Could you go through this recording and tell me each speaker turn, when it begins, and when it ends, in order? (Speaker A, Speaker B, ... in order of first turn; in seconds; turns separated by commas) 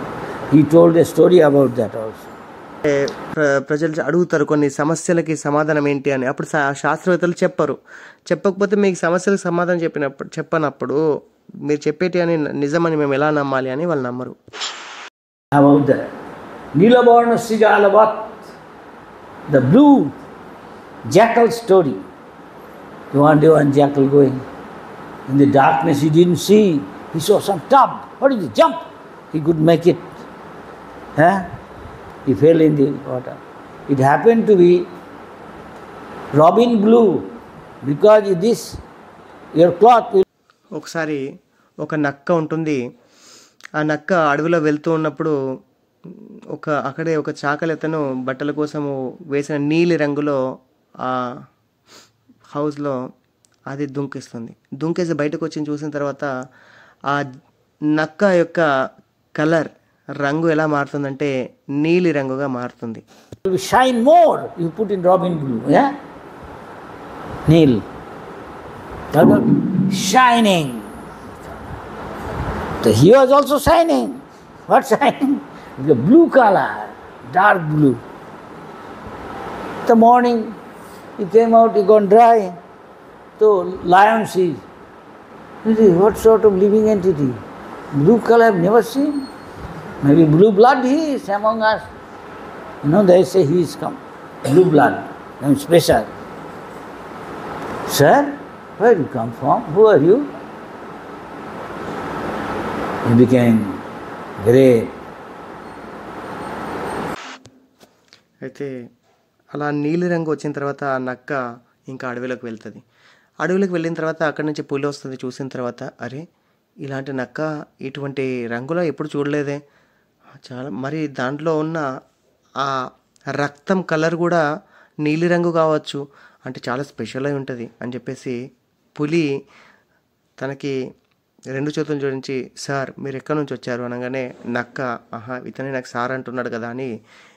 Speaker A: 0.6-2.2, Speaker B: 2.9-7.8, Speaker B: 8.3-11.0, Speaker B: 11.7-14.3, Speaker A: 15.6-16.0, Speaker A: 16.8-18.1, Speaker A: 19.5-20.1, Speaker A: 21.1-22.0, Speaker A: 23.1-24.4, Speaker A: 25.3-28.8, Speaker A: 29.3-30.0, Speaker A: 32.3-33.4, Speaker A: 33.9-34.8, Speaker A: 36.4-37.0, Speaker A: 37.8-38.6, Speaker A: 39.6-40.2, Speaker B: 40.8-41.2, Speaker B: 41.8-42.8, Speaker B: 43.8-45.3, Speaker B: 46.5-50.4, Speaker B: 52.5-53.0, Speaker B: 53.7-56.3, Speaker B: 57.9-58.6, Speaker B: 59.4-59.7, Speaker B: 60.2-61.3, Speaker B: 61.8-63.0, Speaker A: 63.5-65.9, Speaker A: 67.5-67.8, Speaker A: 69.1-70.8, Speaker A: 72.8-78.0, Speaker A: 79.8-80.5, Speaker A: 81.2-82.5, Speaker A: 83.4-84.6, Speaker A: 85.6-87.3, Speaker A: 87.9-89.2, Speaker A: 90.0-91.8, Speaker A: 92.8-96.1, Speaker A: 97.9-100.3, Speaker A: 103.1-103.8, Speaker A: 104.4-104.9, Speaker B: 108.5-108.7, Speaker B: 109.5-111.4, Speaker B: 111.9-112.8, Speaker B: 113.4-116.2, Speaker B: 116.8-119.6, Speaker B: 120.5-121.8, Speaker B: 123.4-124.4, Speaker B: 125.0-128.3, Speaker B: 129.0-129.2, Speaker B: 130.4-130.7, Speaker B: 131.5-136.9